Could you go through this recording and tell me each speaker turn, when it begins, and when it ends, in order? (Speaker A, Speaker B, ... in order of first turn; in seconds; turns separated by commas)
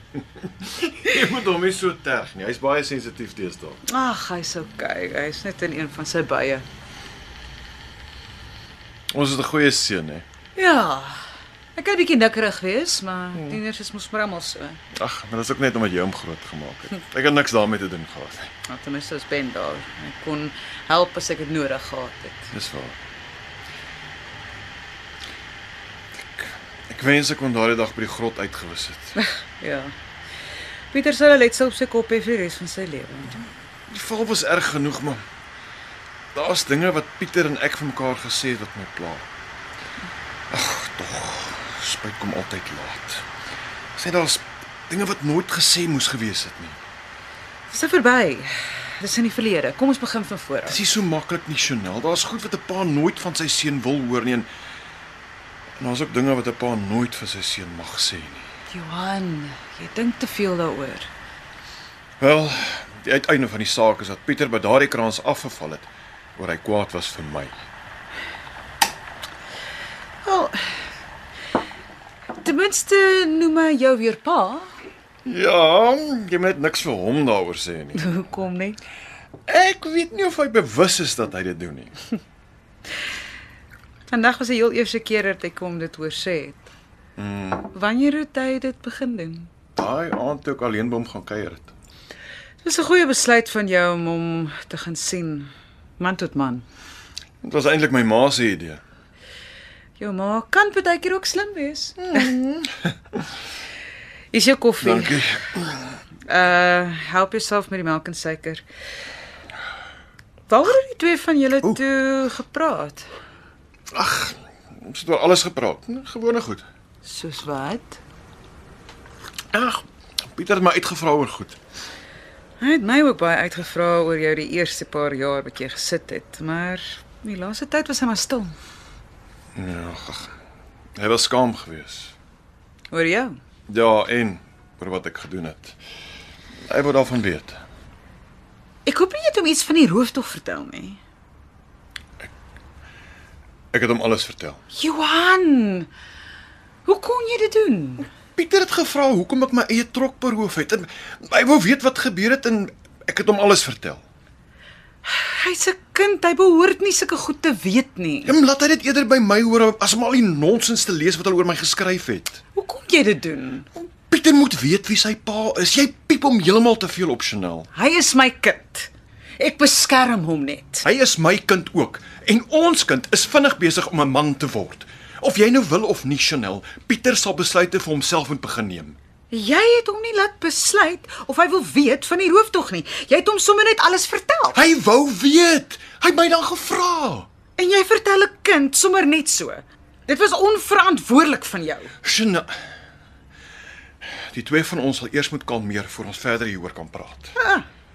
Speaker A: 1.0-3.8, Speaker B: 3.9-6.6, Speaker A: 9.1-10.2, Speaker B: 10.5-14.8, Speaker A: 14.9-18.5, Speaker B: 18.7-22.5, Speaker A: 22.5-23.0, Speaker A: 26.3-29.1, Speaker B: 29.2-29.9, Speaker B: 30.9-33.5, Speaker A: 33.9-35.2, Speaker A: 36.3-39.3, Speaker A: 40.5-43.2, Speaker A: 44.0-46.8, Speaker B: 47.7-50.8, Speaker A: 50.6-54.5, Speaker A: 55.8-58.5, Speaker B: 58.7-61.1, Speaker A: 62.2-67.5, Speaker B: 70.2-70.8, Speaker B: 72.4-74.7, Speaker A: 75.2-78.2, Speaker B: 77.9-78.8, Speaker A: 79.5-81.9, Speaker B: 84.1-86.7, Speaker A: 87.2-87.7, Speaker B: 87.7-89.5, Speaker A: 89.8-91.7, Speaker B: 92.6-96.6, Speaker A: 97.4-98.8, Speaker B: 100.0-102.2, Speaker A: 102.0-102.9, Speaker B: 104.3-105.2, Speaker A: 104.8-105.9, Speaker B: 106.2-108.6, Speaker B: 110.5-113.1, Speaker A: 113.9-116.6, Speaker B: 117.0-118.0, Speaker A: 119.5-121.6, Speaker B: 122.6-128.6, Speaker A: 129.5-130.3, Speaker A: 130.9-132.1, Speaker B: 132.9-133.3, Speaker A: 133.7-135.8, Speaker A: 136.7-137.6, Speaker B: 138.8-141.0, Speaker A: 143.7-144.6, Speaker B: 144.7-145.9, Speaker B: 146.8-148.1, Speaker A: 148.3-154.0, Speaker B: 155.0-158.3, Speaker A: 158.2-162.4, Speaker B: 162.5-163.7, Speaker A: 163.9-167.7, Speaker B: 167.7-170.8, Speaker A: 170.8-178.9, Speaker B: 179.3-184.6, Speaker A: 184.5-187.3, Speaker B: 187.6-191.9, Speaker A: 192.0-192.5, Speaker A: 194.3-197.3, Speaker B: 197.3-197.7